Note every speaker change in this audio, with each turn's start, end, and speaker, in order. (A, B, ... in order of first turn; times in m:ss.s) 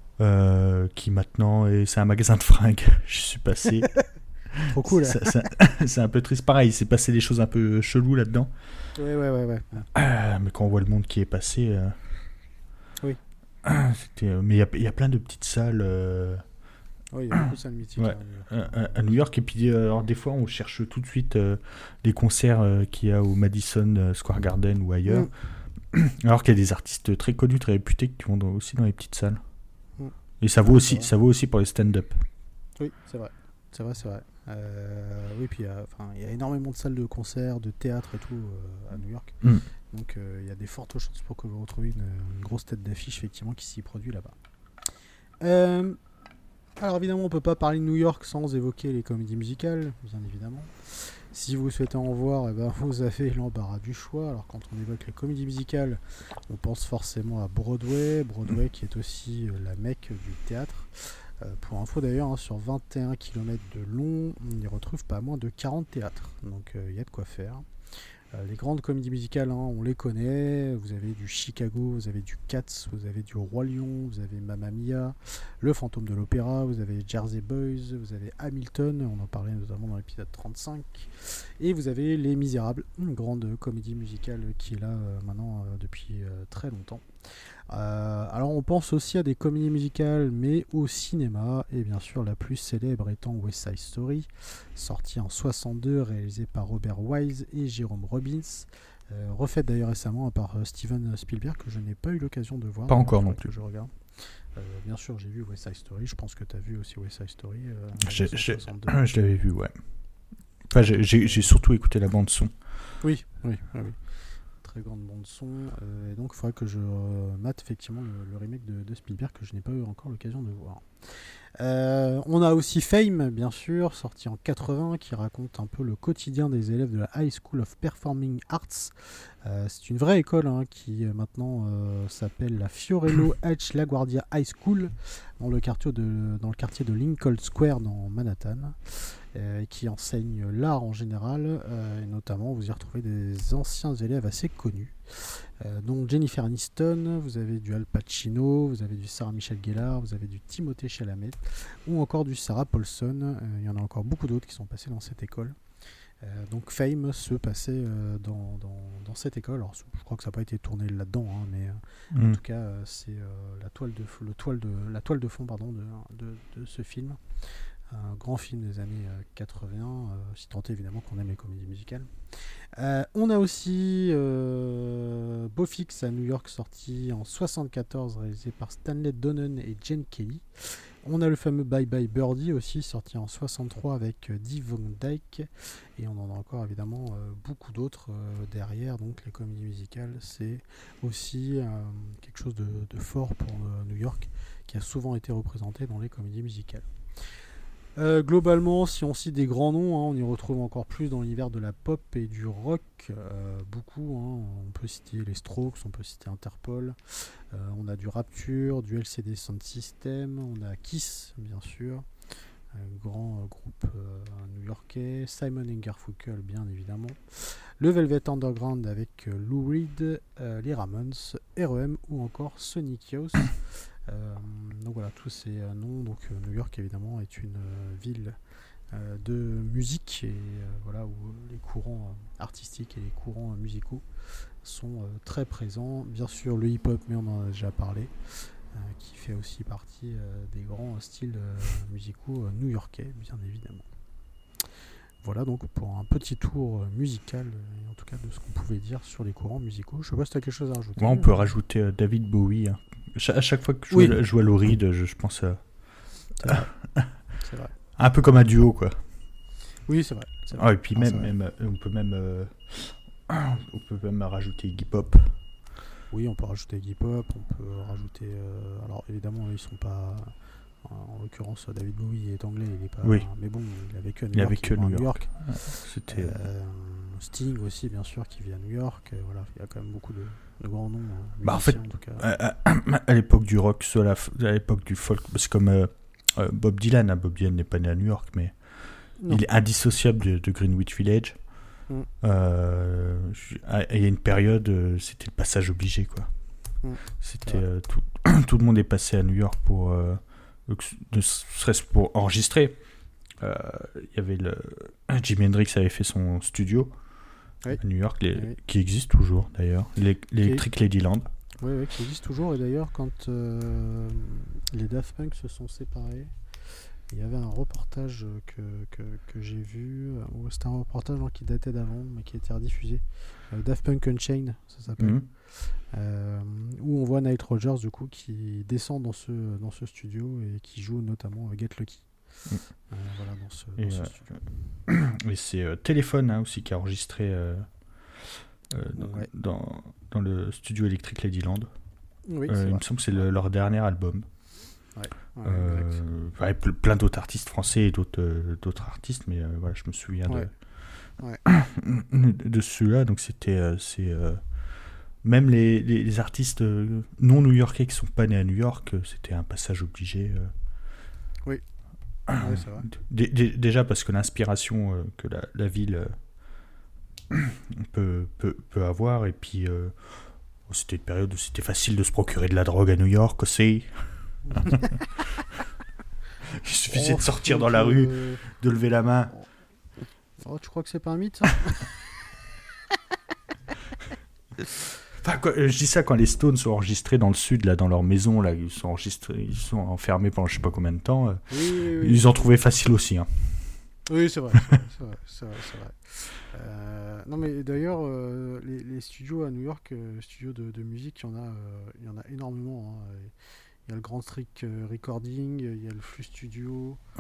0:00.2-0:08.5 A
0:04.7-0:05.5 B
0:09.0-0:09.9 B
0:09.9-0:12.0 A
0:13.6-0:16.4 A
0:17.1-0:19.1 B
0:18.0-0:29.4 A
0:25.1-0:25.3 B
0:30.0-0:31.1 B
0:30.4-0:32.2 A
0:32.8-0:44.4 B
0:45.4-0:46.0 B
0:46.8-1:07.6 B
1:08.3-1:27.0 B
1:27.7-1:44.0 B
1:42.9-1:43.5 A
1:44.6-1:49.0 B
1:48.0-1:49.7 A
1:50.7-1:52.5 A
1:50.9-1:51.5 B
1:53.0-2:35.6 B
2:36.2-2:52.1 B
2:42.1-2:42.4 A
2:52.8-3:16.9 B
3:18.0-3:32.0 B
3:32.7-3:48.4 B
3:48.9-3:54.0 B
3:54.6-4:03.9 B
4:05.2-4:11.3 B
4:11.0-4:17.2 A
4:13.9-4:14.2 B
4:16.4-4:17.8 B
4:18.0-4:19.0 A
4:19.9-4:21.3 B
4:20.6-4:25.4 A
4:26.1-4:42.2 B
4:34.3-4:36.4 A
4:41.4-4:51.6 A
4:49.2-4:49.4 B
4:52.2-4:56.3 A
4:56.8-4:57.6 B
4:57.2-5:02.8 A
5:03.4-5:06.9 A
5:07.8-5:11.3 A
5:11.6-5:16.3 B
5:17.1-5:34.4 B
5:25.0-5:25.3 A
5:33.8-5:41.7 A
5:39.0-5:39.3 B
5:42.3-5:42.8 B
5:42.5-5:44.2 A
5:45.0-5:46.0 B
5:45.4-5:50.5 A
5:51.5-5:54.6 A
5:55.2-6:00.5 A
6:02.3-6:06.2 A
6:02.3-6:02.9 B
6:07.3-6:15.4 A
6:14.5-6:14.9 B
6:16.4-6:19.3 A
6:16.9-6:18.5 B
6:20.4-6:22.0 B
6:25.2-6:33.8 A
6:31.5-6:32.5 B
6:34.1-6:43.3 B
6:43.9-6:47.0 B